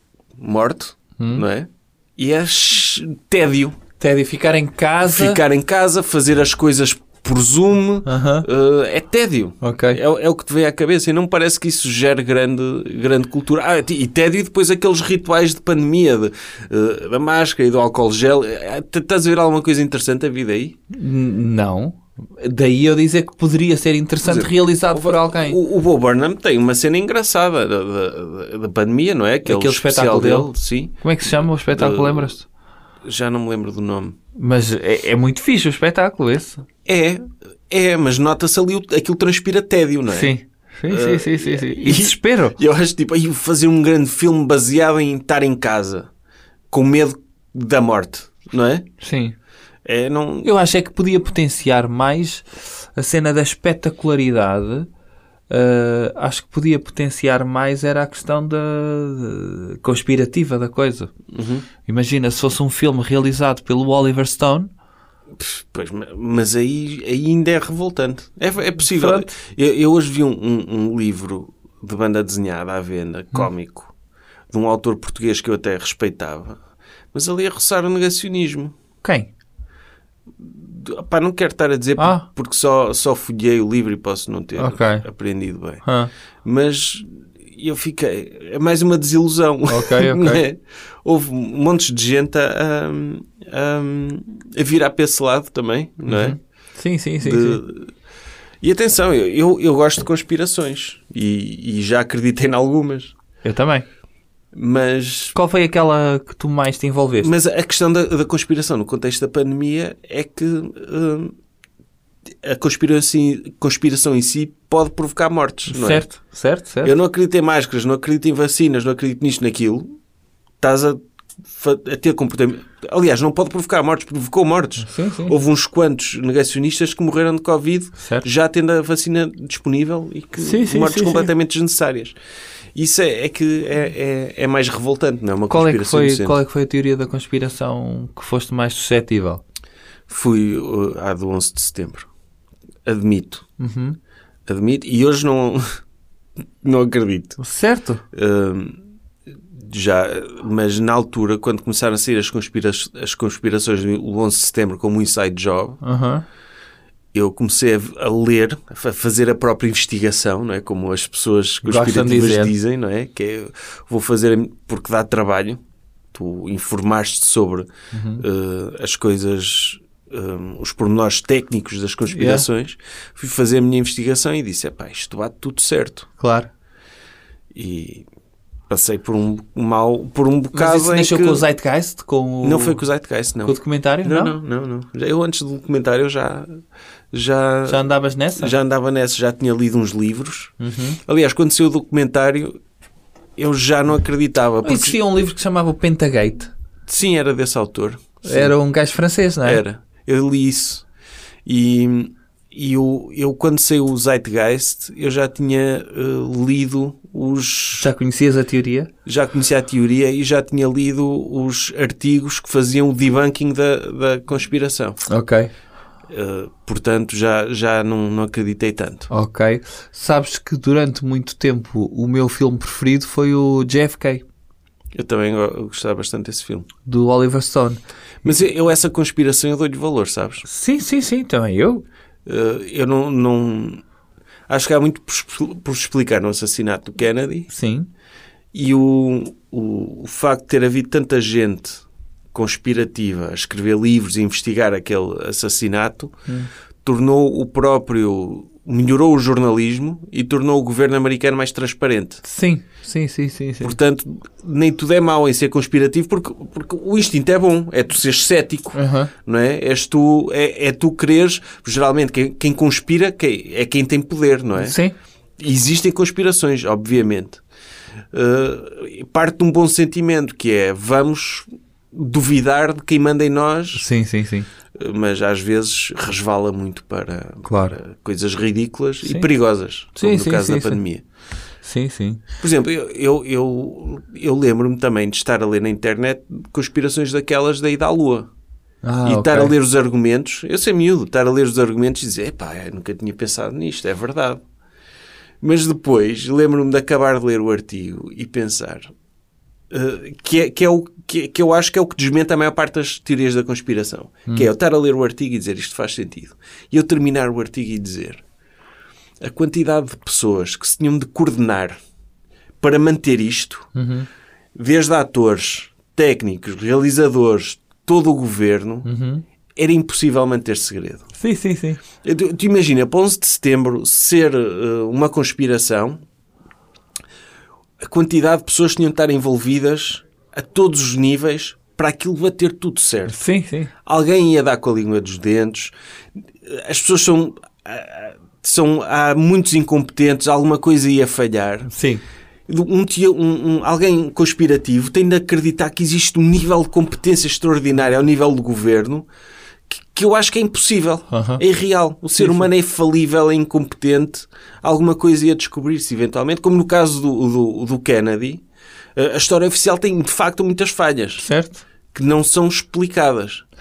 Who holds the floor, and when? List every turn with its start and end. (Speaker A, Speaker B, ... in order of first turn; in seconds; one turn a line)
Speaker A: 0.4-3.8
Speaker B: 1.2-1.4
Speaker B: 4.0-5.4
Speaker A: 5.0-20.8
Speaker B: 8.1-8.5
Speaker B: 9.6-10.0
Speaker B: 20.9-25.6
Speaker A: 24.2-32.4
Speaker B: 29.4-30.5
Speaker B: 31.0-32.5
Speaker A: 33.1-34.2
Speaker B: 34.4-36.6
Speaker A: 36.9-40.3
Speaker B: 40.1-42.6
Speaker A: 40.9-46.1
Speaker A: 46.7-48.9
Speaker B: 49.0-49.4
Speaker A: 49.9-50.5
Speaker B: 50.4-54.9
Speaker B: 55.5-61.1
Speaker A: 61.3-61.7
Speaker B: 61.9-64.7
Speaker A: 65.3-73.9
Speaker B: 68.8-69.3
Speaker A: 74.5-76.6
Speaker A: 77.1-78.7
Speaker B: 79.0-79.3
Speaker A: 80.4-85.8
Speaker B: 82.0-82.2
Speaker B: 84.6-85.0
Speaker B: 85.8-86.1
Speaker A: 86.4-96.4
Speaker B: 89.7-90.4
Speaker B: 96.1-97.6
Speaker A: 97.2-97.9
Speaker A: 98.6-103.1
Speaker B: 103.4-103.9
Speaker A: 104.5-105.3
Speaker B: 105.3-107.3
Speaker A: 107.2-111.3
Speaker A: 112.4-116.1
Speaker B: 115.7-116.9
Speaker A: 116.8-119.9
Speaker A: 120.6-132.2
Speaker B: 124.8-125.4
Speaker B: 128.0-128.3
Speaker B: 130.4-131.3
Speaker A: 132.8-136.4
Speaker B: 135.5-139.4
Speaker A: 140.1-142.1
Speaker A: 142.9-143.4
Speaker B: 143.6-144.0
Speaker A: 144.5-145.6
Speaker A: 146.6-147.4
Speaker B: 147.4-148.0
Speaker A: 148.1-148.8
Speaker A: 149.6-155.8
Speaker B: 155.8-156.2
Speaker A: 157.1-165.6
Speaker B: 161.6-162.5
Speaker A: 166.1-167.7
Speaker B: 167.9-168.2
Speaker A: 168.2-176.1
Speaker B: 172.1-172.5
Speaker B: 176.2-176.5
Speaker A: 177.5-178.1
Speaker A: 178.7-181.4
Speaker B: 180.5-182.8
Speaker A: 182.4-186.6
Speaker B: 183.4-184.3
Speaker A: 187.1-187.8
Speaker B: 187.7-188.5
Speaker A: 188.4-190.5
Speaker B: 190.6-191.0
Speaker A: 191.1-192.6
Speaker A: 193.4-195.0
Speaker B: 194.6-196.5
Speaker A: 196.9-198.6
Speaker B: 198.2-199.6
Speaker A: 199.4-200.8
Speaker A: 201.5-207.9
Speaker B: 207.8-208.9
Speaker A: 209.1-215.0
Speaker B: 215.1-215.5
Speaker A: 216.1-219.1
Speaker B: 219.1-224.2
Speaker A: 224.9-226.7
Speaker B: 226.8-228.4
Speaker A: 228.2-230.4
Speaker B: 230.4-231.8
Speaker A: 232.3-233.8
Speaker A: 234.5-237.5
Speaker B: 237.5-237.9
Speaker A: 238.5-246.1
Speaker A: 246.8-252.2
Speaker B: 252.2-253.8
Speaker A: 253.6-264.8
Speaker B: 258.7-259.1
Speaker B: 264.6-264.9
Speaker A: 265.4-267.4
Speaker A: 268.1-273.8
Speaker B: 273.7-274.5
Speaker A: 274.8-281.0
Speaker B: 277.4-277.8
Speaker B: 279.0-279.3
Speaker B: 279.9-280.8
Speaker B: 281.6-282.2
Speaker A: 282.4-288.3
Speaker B: 288.8-289.5
Speaker A: 289.1-294.4
Speaker A: 295.4-298.9
Speaker A: 299.7-308.2
Speaker A: 309.2-311.8
Speaker A: 312.6-313.7
Speaker B: 313.7-314.1
Speaker A: 314.6-318.9
Speaker B: 318.8-319.2
Speaker A: 319.6-321.1
Speaker B: 321.1-321.8
Speaker A: 322.0-326.0
Speaker A: 327.8-333.2
Speaker B: 333.1-333.7
Speaker A: 333.9-335.7
Speaker A: 336.4-341.7
Speaker B: 341.7-342.0
Speaker A: 342.5-349.1
Speaker A: 349.7-358.4
Speaker B: 351.1-351.4
Speaker B: 352.2-352.5
Speaker A: 359.0-361.2
Speaker B: 361.2-361.6
Speaker A: 361.9-363.4